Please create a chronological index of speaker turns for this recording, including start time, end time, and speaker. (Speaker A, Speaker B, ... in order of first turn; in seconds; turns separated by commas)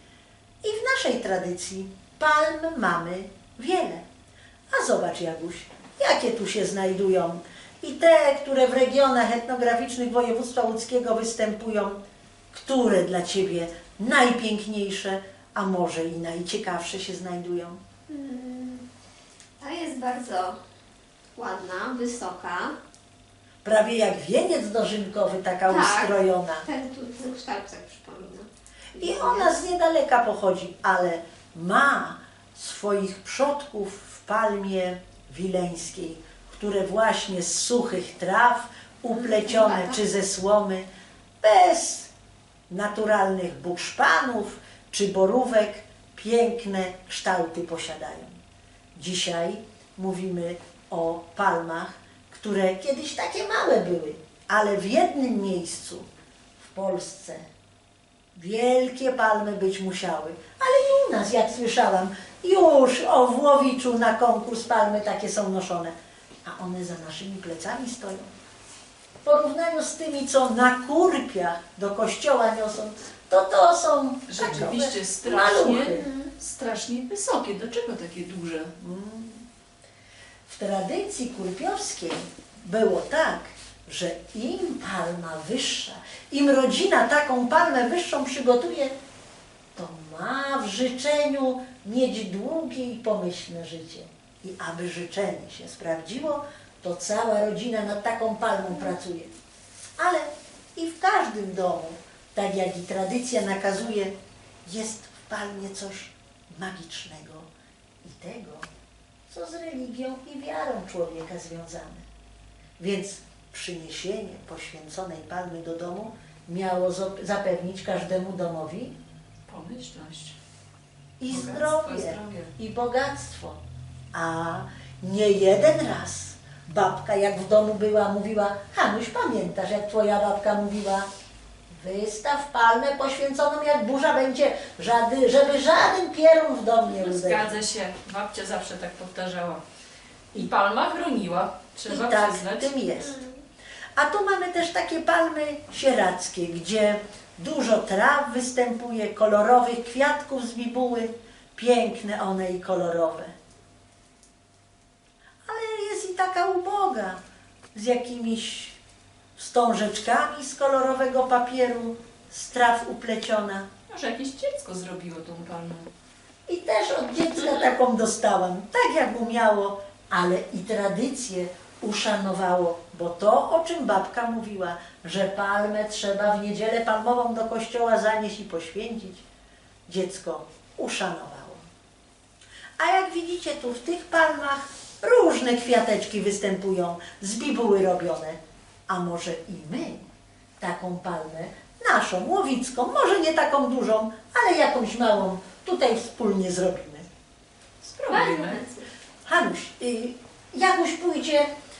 Speaker A: 0.6-4.0, Speaker A: 4.7-12.0, Speaker A: 12.5-17.8, Speaker B: 18.1-18.8, Speaker B: 19.6-20.6, Speaker B: 21.4-22.7, Speaker A: 23.6-26.7, Speaker B: 25.7-29.6, Speaker A: 29.0-40.9, Speaker B: 39.1-40.0, Speaker A: 41.4-42.1, Speaker A: 42.7-48.4, Speaker A: 49.0-56.1, Speaker A: 56.6-57.5, Speaker A: 58.3-68.3, Speaker A: 69.2-76.0, Speaker C: 74.3-78.7, Speaker B: 76.0-76.3, Speaker A: 78.8-79.5, Speaker A: 80.5-88.9, Speaker A: 89.8-99.3, Speaker A: 100.0-107.5, Speaker A: 108.0-108.7, Speaker A: 109.3-112.0, Speaker A: 112.8-119.0, Speaker C: 119.5-120.4, Speaker A: 121.2-123.6, Speaker C: 121.3-122.5, Speaker A: 124.1-131.1, Speaker A: 131.7-137.6, Speaker C: 136.9-139.6, Speaker C: 140.3-142.8, Speaker A: 141.9-143.2, Speaker B: 143.0-143.4, Speaker A: 144.0-153.3, Speaker A: 155.5-157.2, Speaker A: 157.7-158.8, Speaker A: 159.4-163.7, Speaker C: 163.9-165.9, Speaker A: 166.5-179.2, Speaker A: 179.9-181.6, Speaker A: 182.8-190.1, Speaker A: 190.6-197.1, Speaker C: 197.8-198.6, Speaker B: 198.1-198.9, Speaker A: 199.3-201.5